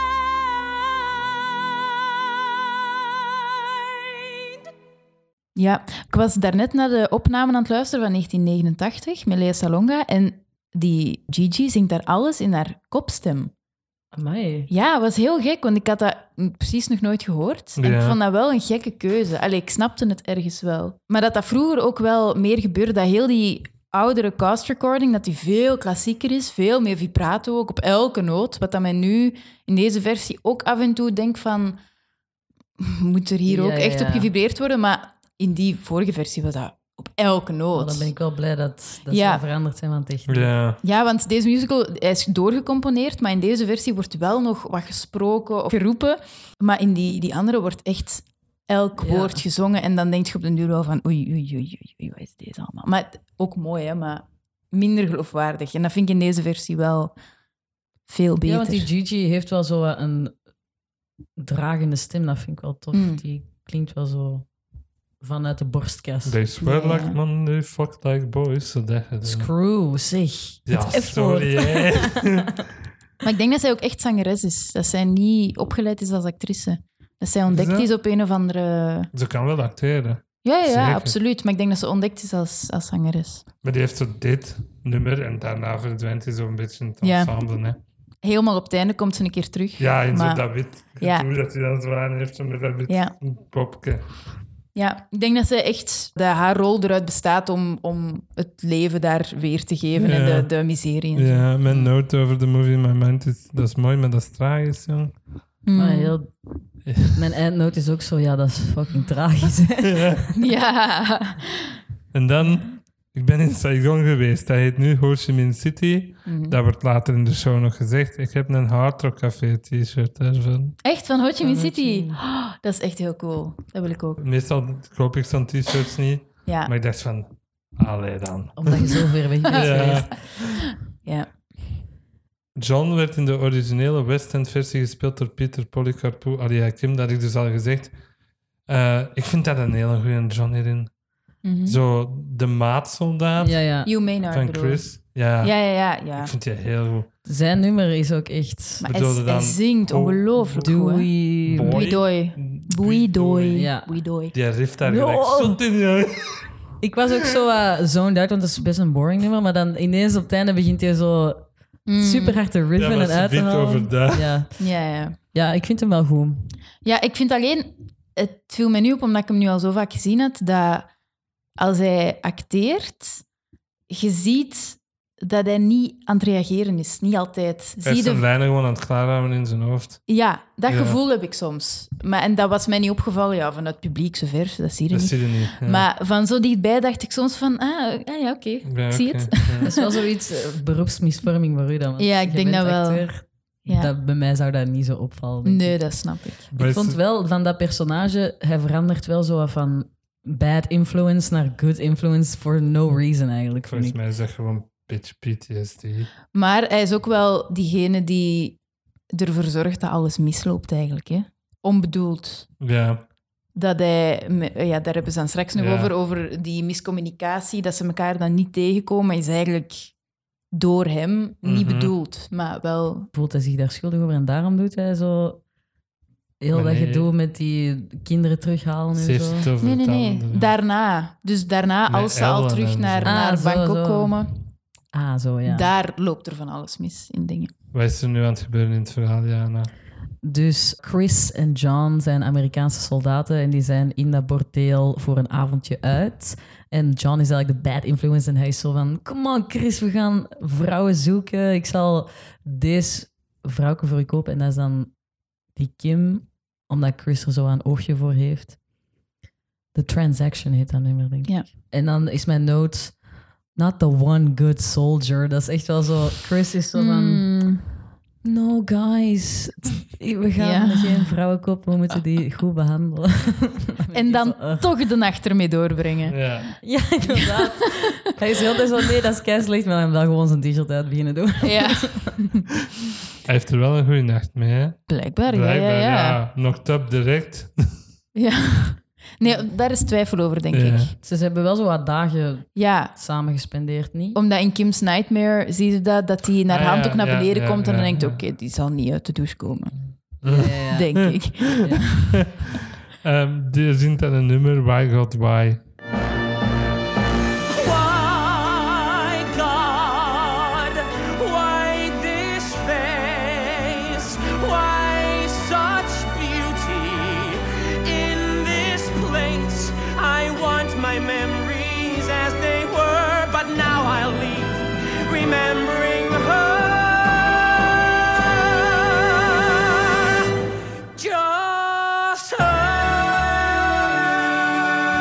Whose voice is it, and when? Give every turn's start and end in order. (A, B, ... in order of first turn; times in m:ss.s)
0:00.8-0:01.6 A
0:03.1-0:04.6 A
0:05.6-0:13.5 B
0:14.1-0:14.7 C
0:14.7-0:31.8 B
0:17.8-0:18.2 D
0:32.8-0:38.1 B
0:33.5-0:34.3 C
0:37.7-0:40.5 C
0:39.1-0:39.4 B
0:40.3-0:40.8 D
0:40.8-0:57.1 B
0:49.0-0:49.4 C
0:58.1-0:58.9 B
0:58.4-1:00.3 C
1:01.4-1:04.5 C
1:02.9-1:03.2 B
1:05.2-1:06.4 C
1:06.2-1:09.5 D
1:06.6-1:07.2 B
1:09.2-1:12.4 C
1:10.6-1:12.6 D
1:13.2-1:19.1 B
1:17.5-1:17.9 D
1:19.1-1:21.1 D
1:20.4-1:23.4 B
1:23.6-1:27.8 D
1:27.0-1:27.4 B
1:28.2-1:31.3 B
1:29.8-1:34.1 D
1:32.9-1:33.1 B
1:34.8-1:41.5 B
1:40.0-1:40.5 D
1:41.1-1:45.2 D
1:45.6-1:46.1 B
1:45.7-1:46.3 C
1:46.8-1:47.2 D
1:47.0-1:50.3 C
1:49.8-1:50.2 D
1:50.3-1:51.8 B
1:52.1-2:00.8 D
1:56.2-1:56.6 B
2:00.8-2:04.2 B
2:01.4-2:02.2 C
2:04.2-2:10.6 D
2:06.4-2:06.7 B
2:08.6-2:10.1 C
2:09.5-2:11.3 B
2:12.5-2:17.9 D
2:18.6-2:20.9 D
2:21.4-2:21.8 B
2:21.6-2:23.7 D
2:23.4-2:23.9 C
2:23.8-2:26.3 B
2:24.3-2:25.6 D
2:26.1-2:27.1 D
2:27.2-2:28.9 C
2:28.8-2:34.3 B
2:28.9-2:30.7 D
2:30.6-2:31.8 C
2:31.4-2:33.7 D
2:33.5-2:33.9 C
2:34.3-2:36.5 D
2:34.8-2:35.6 C
2:36.8-2:44.6 C
2:41.8-2:42.4 B
2:42.8-2:44.4 D
2:44.6-2:45.2 B
2:45.3-2:46.6 C
2:46.8-2:50.9 B
2:51.6-2:53.2 B
2:53.9-2:58.2 B
2:57.8-3:00.0 D
3:00.1-3:09.8 B
3:00.7-3:01.0 D
3:04.9-3:05.8 D
3:08.6-3:09.7 D
3:09.6-3:15.9 C
3:12.0-3:13.9 B
3:15.4-3:16.5 B
3:16.5-3:24.0 C
3:16.5-3:17.0 D
3:23.6-3:26.1 D
3:26.3-3:28.6 B
3:29.1-3:32.5 B
3:32.6-3:33.0 D
3:33.6-3:39.9 B
3:35.6-3:35.9 D
3:40.5-3:43.1 B
3:41.4-3:41.9 D
3:43.1-3:45.4 C
3:46.4-3:49.5 C
3:46.5-3:47.1 D
3:48.9-3:50.5 D
3:49.6-3:54.4 B
3:51.9-3:53.2 D
3:53.0-3:54.2 C
3:54.9-3:55.7 C
3:55.4-3:57.5 B
3:57.7-3:59.7 D
4:00.2-4:15.0 C
4:15.5-4:18.6 C
4:19.7-4:23.0 C
4:23.5-4:27.3 C
4:26.7-4:27.6 B
4:28.2-4:34.7 C
4:30.4-4:31.1 B
4:33.9-4:36.2 B
4:36.1-4:36.6 D
4:36.6-4:42.1 C
4:41.4-4:42.4 B
4:43.2-4:47.8 D
4:44.9-4:46.2 B
4:48.1-4:50.9 B
4:50.5-4:50.9 D
4:51.0-4:54.2 C
4:52.5-4:52.9 B
4:54.1-5:00.1 B
4:56.5-4:58.2 D
5:00.2-5:01.2 D
5:00.2-5:01.9 C
5:00.7-5:02.2 B
5:02.4-5:05.6 D
5:07.5-5:30.3 E
5:30.9-5:34.6 E